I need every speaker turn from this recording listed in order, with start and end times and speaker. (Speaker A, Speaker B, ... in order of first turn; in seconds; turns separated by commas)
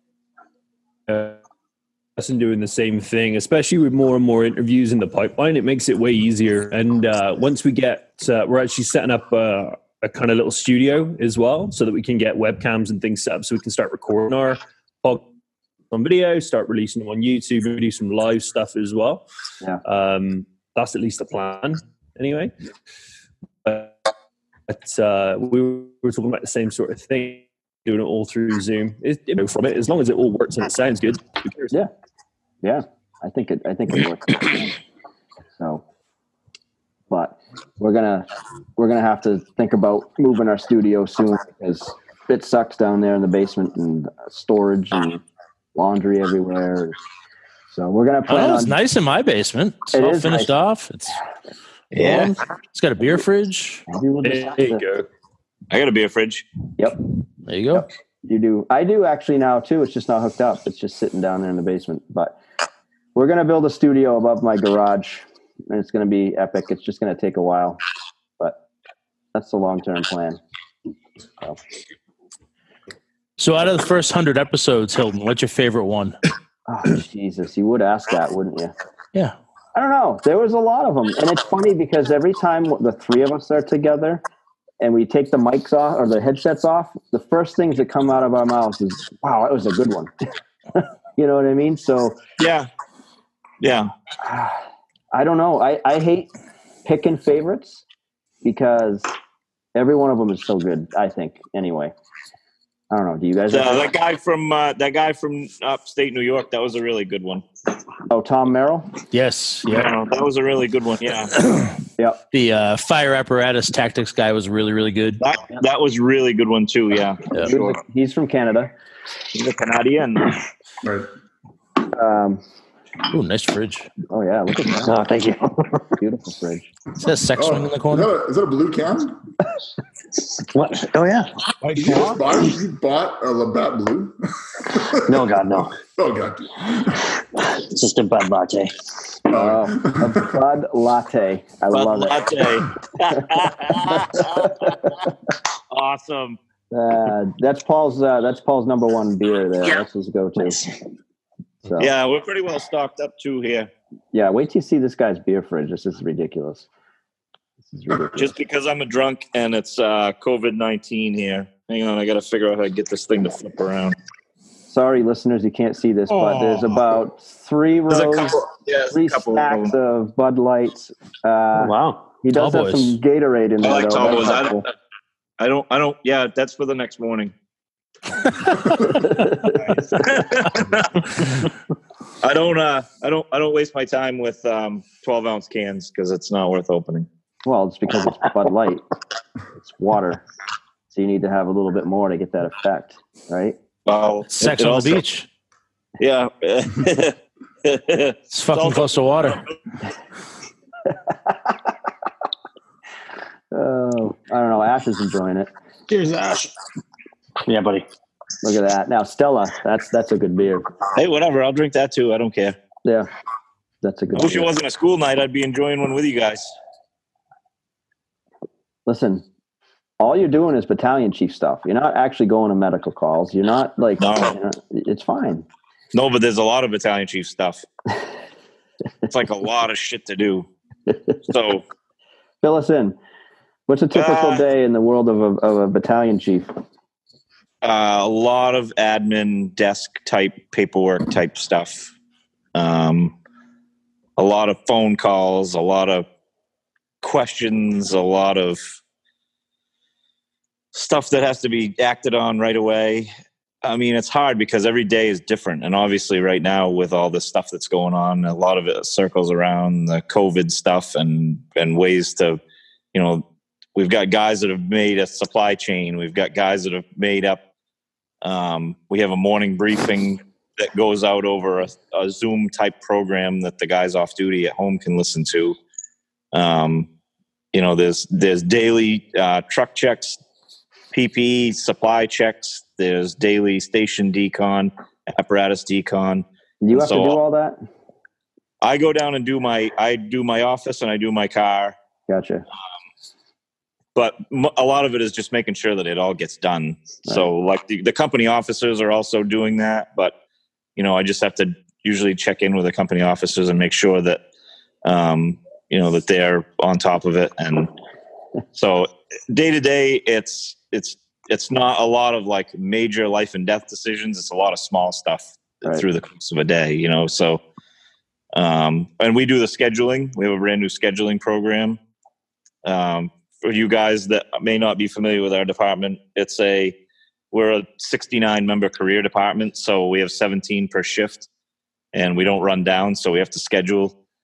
Speaker A: 1.1-1.4, Speaker A: 2.2-15.2, Speaker A: 15.9-19.2, Speaker A: 19.8-22.5, Speaker A: 23.6-24.0, Speaker A: 24.7-31.8, Speaker B: 32.6-34.8, Speaker B: 37.1-45.2, Speaker B: 45.8-47.0, Speaker B: 47.7-48.8, Speaker C: 48.3-51.2, Speaker B: 49.9-50.5, Speaker C: 51.9-53.9, Speaker D: 51.9-52.3, Speaker B: 53.9-54.8, Speaker A: 54.2-55.1, Speaker D: 55.7-56.5, Speaker C: 57.5-57.9, Speaker B: 57.7-62.4, Speaker B: 63.1-67.8, Speaker B: 69.3-70.4, Speaker C: 73.4-76.2, Speaker B: 76.7-78.7, Speaker B: 79.8-84.2, Speaker B: 84.8-90.1, Speaker B: 90.7-92.2, Speaker D: 92.4-92.7, Speaker D: 93.6-93.9, Speaker B: 94.2-94.6, Speaker B: 95.1-96.3, Speaker B: 96.8-97.8, Speaker B: 98.4-99.1, Speaker B: 99.8-101.9, Speaker B: 102.9-103.9, Speaker D: 103.5-107.5, Speaker B: 108.1-109.0, Speaker C: 109.1-109.9, Speaker D: 109.7-111.3, Speaker C: 111.4-111.7, Speaker C: 112.3-115.2, Speaker D: 115.2-117.3, Speaker B: 117.4-118.7, Speaker D: 119.3-120.4, Speaker E: 120.8-121.1, Speaker B: 121.9-122.4, Speaker C: 123.1-123.9, Speaker B: 124.1-125.0, Speaker F: 124.8-125.9, Speaker B: 126.0-126.7, Speaker C: 127.0-128.1, Speaker E: 127.3-129.2, Speaker F: 130.4-131.3, Speaker G: 131.6-132.2, Speaker E: 131.8-135.1, Speaker F: 135.0-135.8, Speaker E: 136.0-137.1, Speaker F: 137.3-138.8, Speaker E: 139.3-140.4, Speaker B: 139.3-142.4, Speaker D: 141.7-145.1, Speaker B: 143.8-144.4, Speaker D: 145.7-146.4, Speaker B: 146.7-150.6, Speaker B: 151.7-151.9, Speaker D: 151.8-153.7, Speaker B: 154.1-156.7, Speaker B: 157.7-158.4, Speaker D: 158.2-164.0, Speaker B: 164.7-168.4, Speaker G: 166.1-166.8, Speaker D: 167.9-169.7, Speaker B: 168.9-174.7, Speaker F: 171.6-172.0, Speaker C: 172.3-173.0, Speaker D: 173.6-174.7, Speaker D: 175.4-177.3, Speaker B: 178.9-179.6, Speaker G: 179.4-180.8, Speaker D: 179.9-181.0, Speaker D: 182.2-187.1, Speaker B: 187.4-188.8, Speaker B: 189.6-190.2, Speaker B: 190.9-193.6, Speaker D: 193.9-195.0, Speaker C: 194.3-195.3, Speaker D: 196.0-199.6, Speaker C: 198.3-199.4, Speaker B: 200.9-201.6, Speaker B: 203.5-205.5, Speaker G: 205.9-206.5, Speaker F: 207.4-207.9, Speaker B: 208.4-210.7, Speaker D: 210.9-212.6, Speaker B: 213.8-214.5, Speaker D: 214.1-216.5, Speaker B: 218.9-219.2, Speaker B: 220.0-225.5, Speaker D: 224.0-224.3, Speaker D: 225.9-227.7, Speaker D: 229.1-230.5, Speaker D: 231.3-231.6, Speaker B: 232.4-233.0, Speaker B: 233.7-236.5, Speaker D: 233.9-234.4, Speaker D: 237.6-241.9, Speaker D: 242.6-243.1, Speaker D: 244.2-246.1, Speaker D: 247.0-248.6, Speaker D: 250.7-253.1, Speaker D: 253.6-262.4, Speaker D: 262.9-263.2, Speaker D: 263.8-267.4, Speaker D: 268.2-275.6, Speaker D: 276.3-276.9, Speaker D: 277.5-280.2, Speaker D: 280.9-287.2, Speaker B: 286.6-287.6, Speaker D: 288.6-291.8, Speaker B: 292.1-292.5, Speaker D: 293.9-300.1, Speaker D: 300.8-304.2, Speaker D: 304.9-307.7, Speaker D: 308.5-317.4, Speaker D: 318.3-321.8, Speaker D: 322.6-326.8, Speaker D: 327.3-331.3, Speaker D: 331.9-333.9